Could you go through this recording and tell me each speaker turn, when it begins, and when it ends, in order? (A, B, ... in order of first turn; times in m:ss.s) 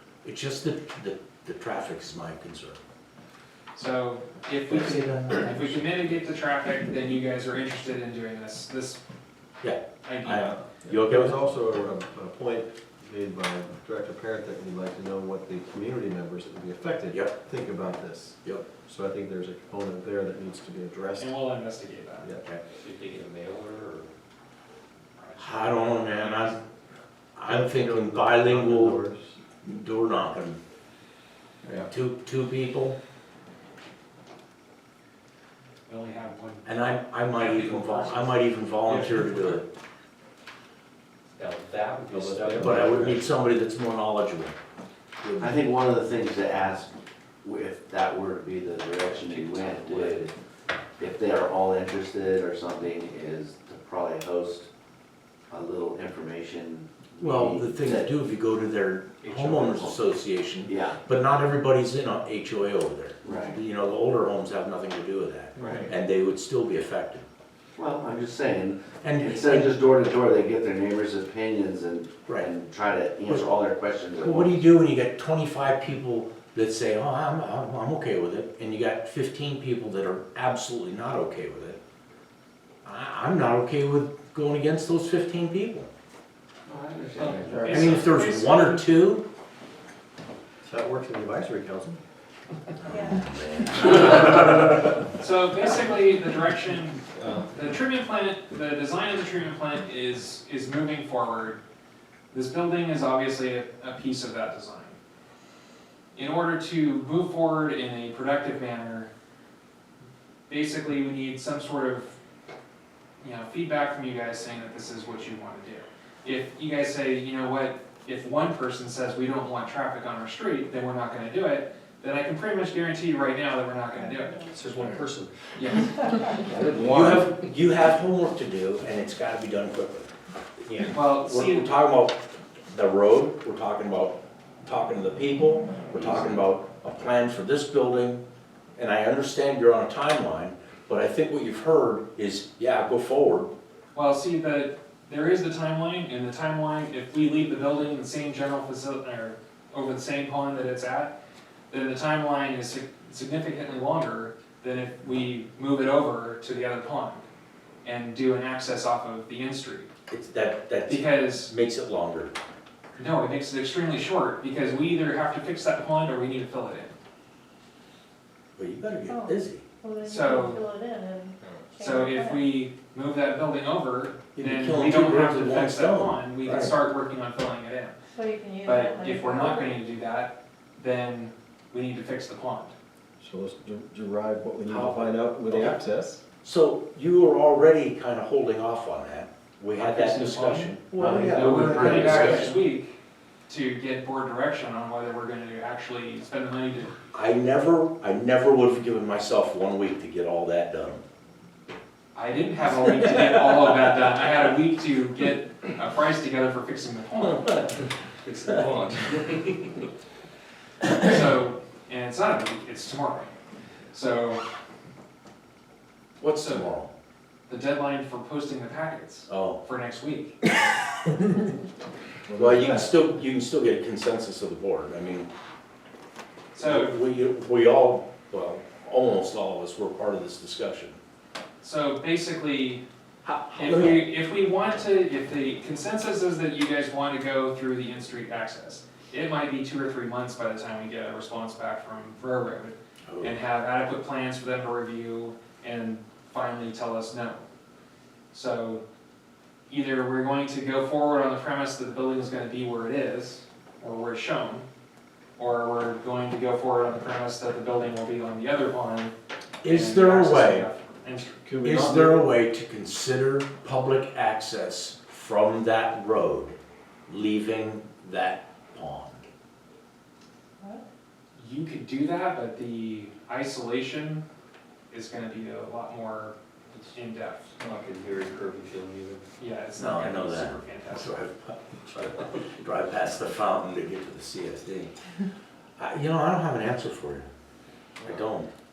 0:00.2-0:02.8 A
0:03.8-0:09.0 B
0:04.7-0:05.9 A
0:09.6-0:11.4 A
0:10.0-0:10.4 B
0:10.7-0:21.4 C
0:21.2-0:22.3 B
0:22.7-0:24.1 D
0:25.2-0:26.6 B
0:25.4-0:26.6 A
0:27.3-0:29.0 A
0:27.4-0:29.4 C
0:29.6-0:30.6 A
0:31.9-0:33.0 A
0:35.9-0:36.7 B
0:36.6-0:39.6 A
0:37.3-0:38.3 B
0:41.4-0:43.2 D
0:42.1-0:43.2 C
0:42.6-0:44.5 A
0:45.2-0:45.5 A
0:45.4-0:46.9 E
0:47.4-0:50.3 E
0:49.0-0:50.2 D
0:51.0-0:54.7 E
0:55.5-0:58.1 E
0:57.2-1:07.2 A
0:59.2-0:59.7 D
0:59.6-1:00.0 E
1:00.6-1:01.0 E
1:03.2-1:03.6 E
1:05.6-1:05.9 C
1:07.8-1:14.6 E
1:09.0-1:09.7 A
1:14.2-1:21.8 A
1:22.8-1:25.9 A
1:26.7-1:28.0 E
1:27.2-1:28.8 B
1:27.2-1:27.8 C
1:27.6-1:29.2 A
1:30.6-1:32.0 C
1:33.0-1:34.7 E
1:35.2-1:41.6 B
1:37.2-1:37.5 C
1:42.3-1:45.0 B
1:46.1-1:49.1 B
1:50.5-1:52.2 B
1:53.2-2:04.5 B
2:04.5-2:07.3 D
2:05.6-2:06.0 B
2:06.7-2:10.1 A
2:10.6-2:10.9 D
2:10.8-2:11.7 B
2:11.0-2:18.2 A
2:18.8-2:23.5 A
2:23.9-2:31.1 B
2:31.7-2:37.2 B
2:37.8-2:39.9 B
2:40.1-2:42.3 A
2:40.8-2:41.5 B
2:42.9-2:46.9 B
2:48.6-2:49.6 A
2:49.1-2:52.4 F
2:50.0-2:50.6 B
2:51.8-2:58.0 B
2:54.3-2:56.7 A
2:58.1-2:59.7 F
2:58.6-3:02.7 B
3:03.2-3:06.2 C
3:04.7-3:05.8 A
3:06.4-3:12.6 A
3:09.7-3:13.0 B
3:10.9-3:12.4 C
3:11.9-3:12.2 D
3:13.5-3:17.0 B
3:17.1-3:21.0 A
3:22.1-3:27.7 B
3:23.0-3:23.3 A
3:28.2-3:29.7 D
3:30.9-3:33.3 B
3:33.9-3:34.4 B
3:36.2-3:36.9 A
3:36.4-3:36.7 B
3:37.5-3:40.4 B
3:39.3-3:39.6 A
3:42.2-3:43.1 C
3:42.3-3:45.3 A
3:46.5-3:47.0 B
3:46.6-3:51.0 A
3:51.6-3:52.8 B
3:53.2-3:54.0 A
3:53.5-4:07.4 B
4:03.1-4:03.4 A
4:08.3-4:08.8 B
4:09.7-4:14.7 B
4:15.4-4:19.1 B
4:19.6-4:20.7 A
4:19.6-4:21.4 B
4:21.4-4:22.3 C
4:21.6-4:26.6 A
4:27.1-4:29.2 A
4:31.4-4:34.2 B
4:34.9-4:36.3 B
4:36.9-4:37.5 B
4:37.6-4:39.2 D
4:39.4-4:41.2 B
4:39.8-4:44.9 A
4:45.8-4:47.2 A
4:48.0-4:48.5 A